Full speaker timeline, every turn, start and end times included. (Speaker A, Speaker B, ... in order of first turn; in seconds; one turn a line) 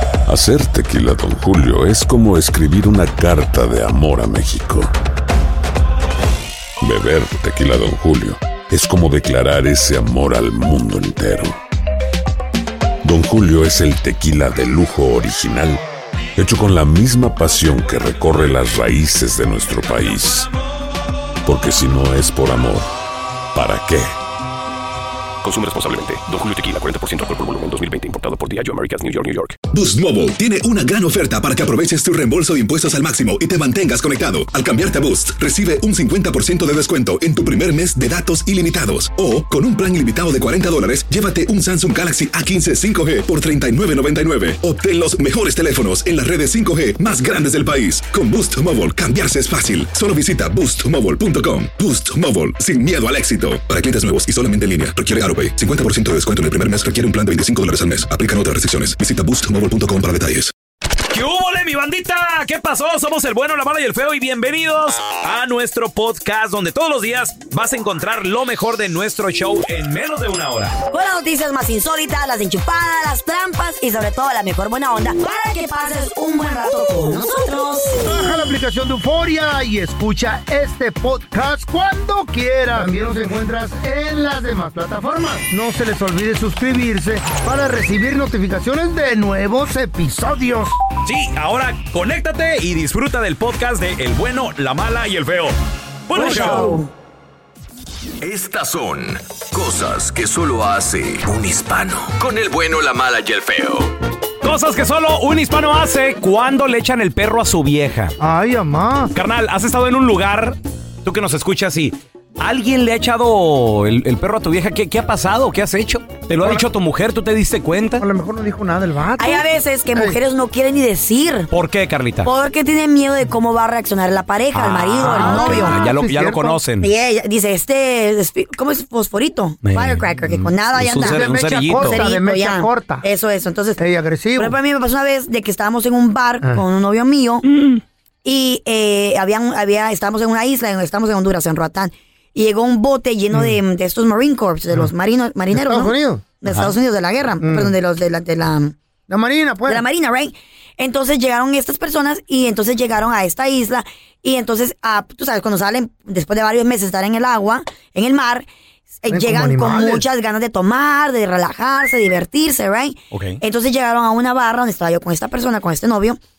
Speaker A: 0.3-4.9
Speaker A: 6.8-11.6
Speaker A: 13.0-15.8
Speaker A: 16.4-20.5
Speaker A: 21.4-22.9
Speaker A: 23.5-24.1
Speaker B: 25.4-29.6
Speaker C: 29.7-60.5
Speaker D: 61.1-70.8
Speaker E: 70.9-78.0
Speaker F: 78.0-90.8
Speaker D: 91.0-95.6
Speaker D: 96.1-96.8
Speaker E: 96.1-96.9
Speaker G: 98.2-103.9
Speaker D: 104.4-108.2
Speaker F: 108.2-109.1
Speaker D: 109.1-118.0
Speaker F: 118.0-120.2
Speaker E: 119.2-121.5
Speaker D: 121.5-122.3
Speaker E: 122.2-125.8
Speaker D: 124.5-126.9
Speaker F: 125.0-126.6
Speaker E: 126.8-133.8
Speaker D: 129.6-132.0
Speaker F: 131.0-133.0
Speaker F: 133.8-134.6
Speaker E: 134.4-137.5
Speaker D: 137.4-137.8
Speaker E: 138.2-148.8
Speaker F: 145.5-146.2
Speaker F: 147.4-147.7
Speaker F: 149.1-149.8
Speaker E: 149.7-158.5
Speaker E: 159.0-166.2
Speaker F: 159.1-160.0
Speaker D: 163.1-163.4